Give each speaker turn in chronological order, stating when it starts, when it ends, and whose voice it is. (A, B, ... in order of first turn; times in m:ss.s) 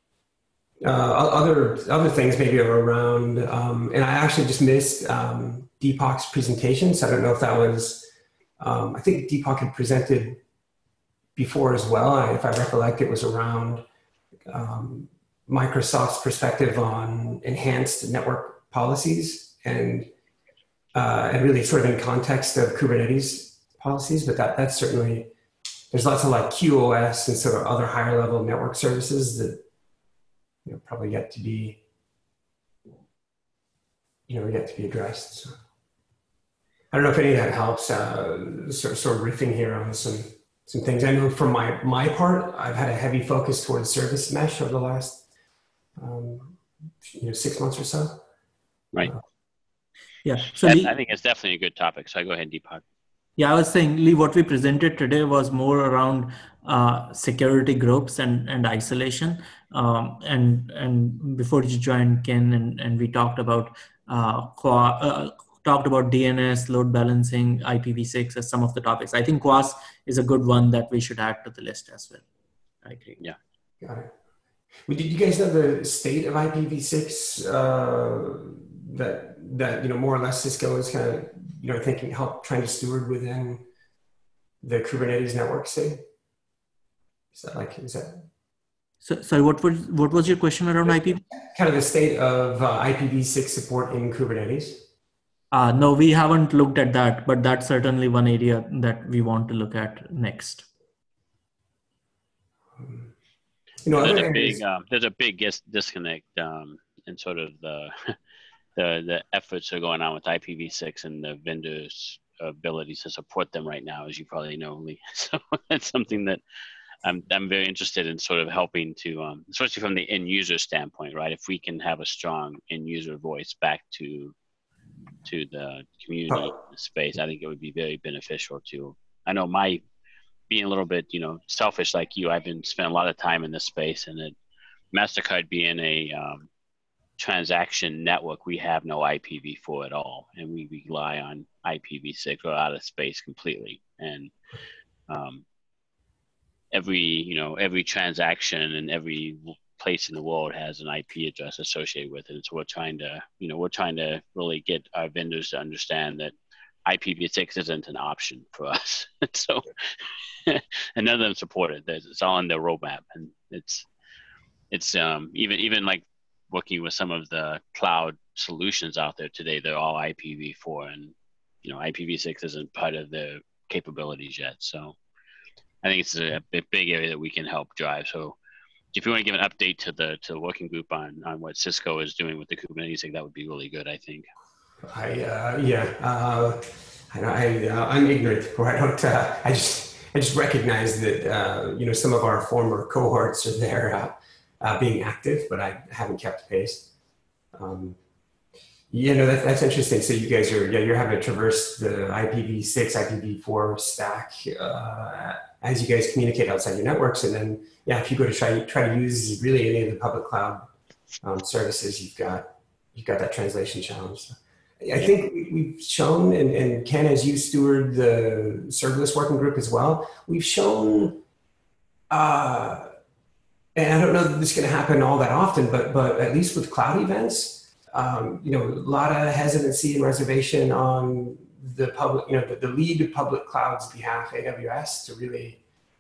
0:00.8-0:10.4 A
0:11.4-0:13.8 A
0:14.5-0:20.1 A
0:20.9-0:25.3 A
0:25.9-0:29.6 A
0:30.6-0:31.8 A
0:34.3-0:35.6 A
0:36.9-0:45.2 A
0:46.0-0:48.2 A
0:50.2-0:50.9 B
0:50.6-0:52.8 C
0:53.4-1:12.2 B
1:12.8-1:13.2 B
1:13.8-1:14.1 A
1:14.9-1:23.6 A
1:24.6-1:26.0 A
1:27.3-1:28.3 A
1:29.0-1:31.2 B
1:31.5-1:34.9 A
1:35.5-1:40.7 B
1:42.8-1:43.1 A
1:43.8-1:44.6 A
1:44.0-1:48.2 C
1:48.8-1:56.4 C
1:57.0-2:04.3 C
2:05.2-2:09.8 C
2:10.5-2:14.4 C
2:14.9-2:16.5 C
2:17.2-2:24.3 C
2:25.1-2:25.4 C
2:26.7-2:36.3 C
2:36.9-2:43.9 C
2:44.7-2:55.0 C
2:55.8-2:58.4 C
2:58.9-3:04.2 C
3:04.8-3:16.9 A
3:17.5-3:18.0 A
3:18.9-3:30.7 A
3:31.2-3:41.2 A
3:42.1-3:42.9 A
3:43.8-3:55.6 A